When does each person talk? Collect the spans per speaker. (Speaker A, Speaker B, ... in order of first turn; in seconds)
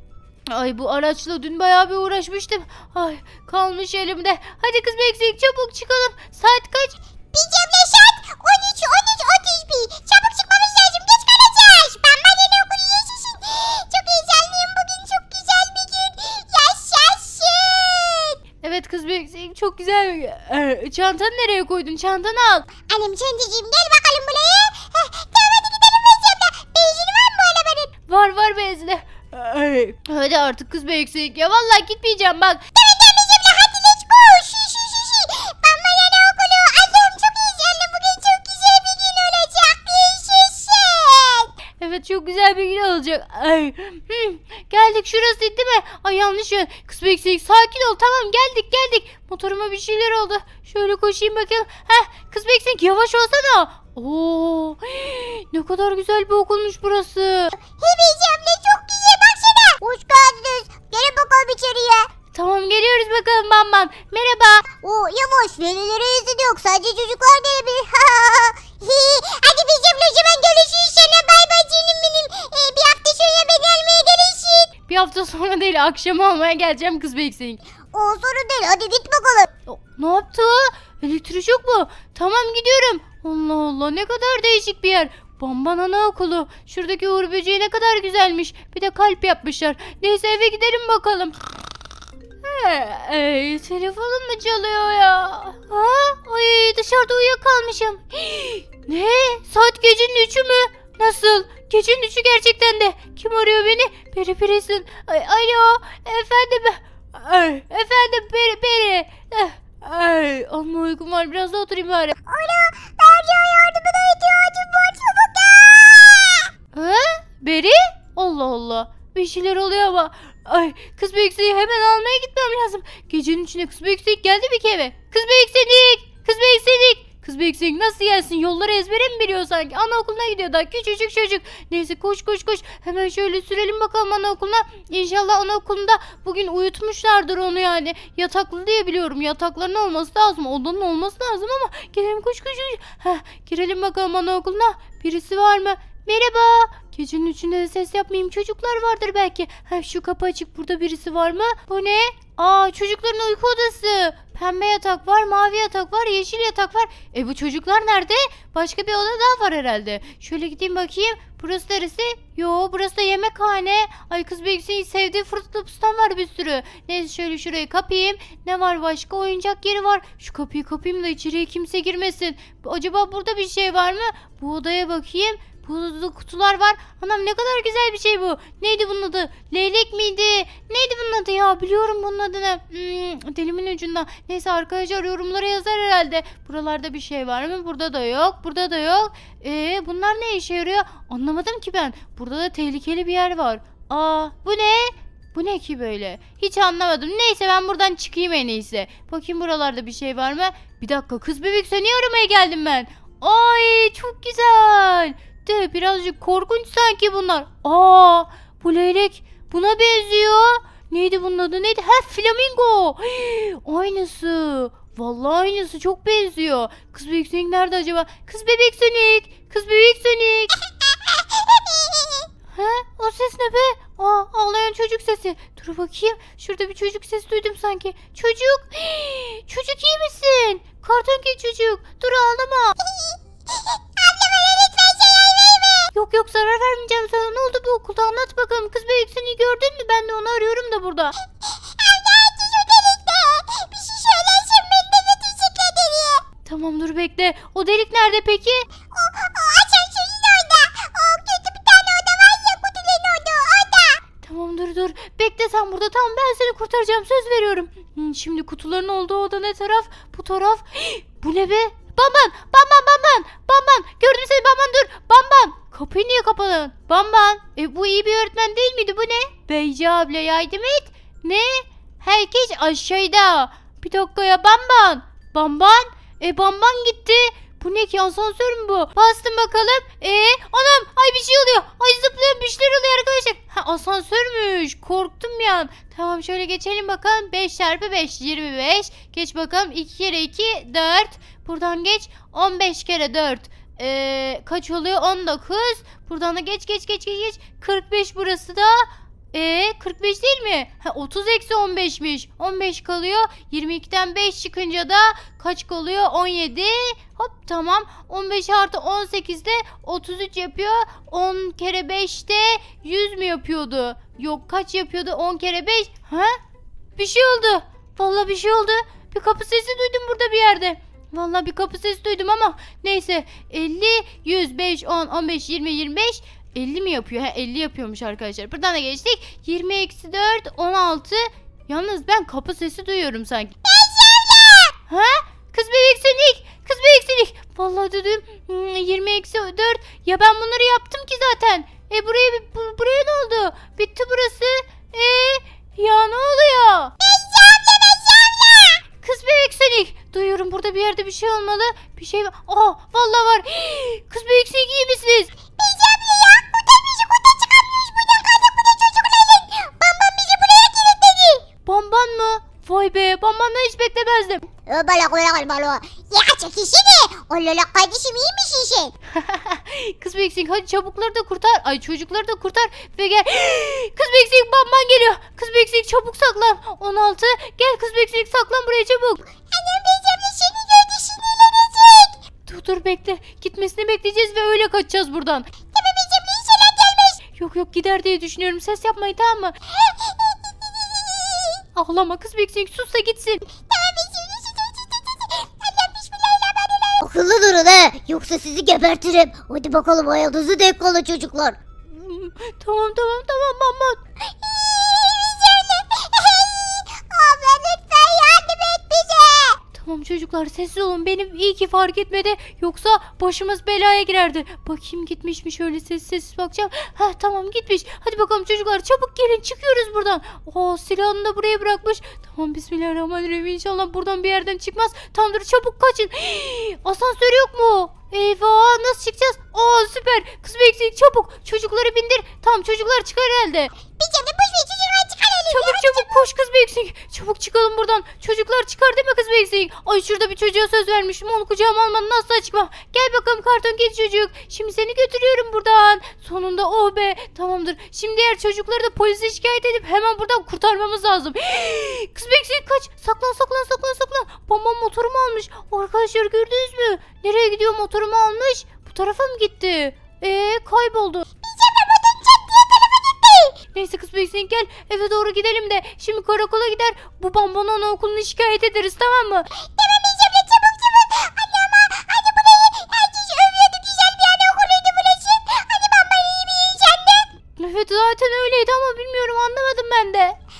Speaker A: 0.5-7.0, 18.6-22.7, 28.1-32.6, 41.8-57.5, 62.3-64.7, 74.9-77.6, 79.7-91.3, 92.4-112.1, 116.7-220.5, 222.5-232.7, 235.9-241.1, 246.4-248.7, 254.2-316.4, 316.9-333.6, 334.9-346.9, 349.0-355.3, 361.6-364.4, 369.1-379.2, 382.4-385.5, 387.3-389.6, 391.8-393.4, 401.9-404.0, 409.7-433.7, 435.5-461.2, 463.7-469.5, 477.6-480.4
Speaker B: 7.3-18.4, 22.9-27.9, 32.7-41.5, 57.6-62.1, 64.8-74.7, 77.9-79.5, 112.2-116.5, 221.2-222.2, 232.8-235.9, 241.4-246.2, 248.9-254.0, 333.6-334.7, 347.0-348.8, 355.5-361.4, 364.6-368.9, 379.4-382.2, 385.7-387.2, 389.7-391.6, 393.5-401.6, 404.3-409.6, 433.9-436.2, 461.4-463.6, 469.5-477.3